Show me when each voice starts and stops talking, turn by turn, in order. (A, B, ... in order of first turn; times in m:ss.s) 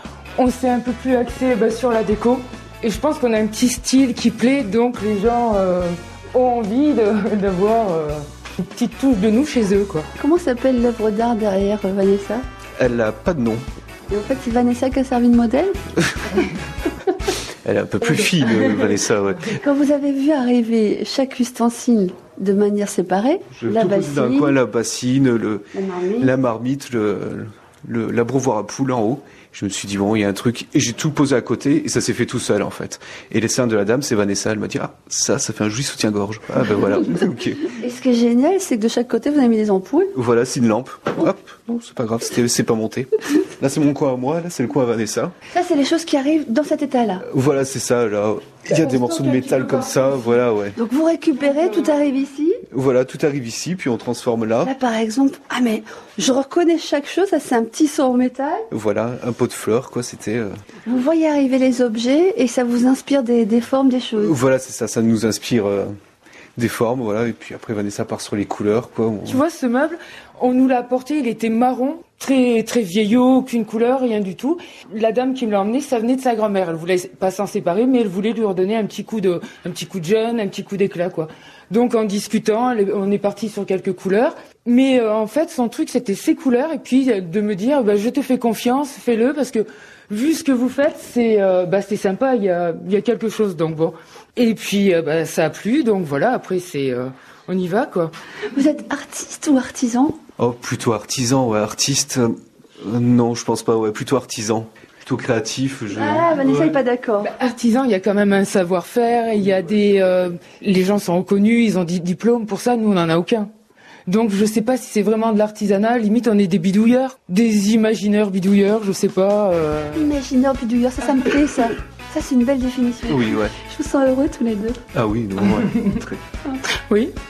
0:00.4-0:10.1 A
0:10.2-0:12.4 B
0:12.8-0:13.7 C
0:14.1-0:15.8 B
0:16.1-0:16.4 C
0:17.6-0:19.6 C
0:18.1-0:19.0 A
0:19.5-0:24.6 B
0:23.5-0:37.7 C
0:25.7-0:26.3 B
0:37.8-0:40.1 B
0:40.1-0:45.3 C
0:45.5-0:47.2 B
0:47.2-0:50.8 C
0:48.7-0:50.4 A
0:50.8-0:52.6 B
0:51.3-0:52.1 A
0:52.7-0:54.7 C
0:54.6-0:58.7 B
0:58.7-1:00.5 C
1:00.9-1:04.4 B
1:04.2-1:05.9 C
1:06.6-1:09.4 C
1:09.2-1:38.1 A
1:38.5-1:40.2 B
1:40.4-1:46.8 C
1:45.9-1:47.3 B
1:47.2-1:53.5 A
1:54.1-2:00.1 A
1:59.9-2:04.8 B
2:03.1-2:03.6 C
2:04.9-2:06.2 C
2:05.5-2:06.0 A
2:06.7-2:07.1 A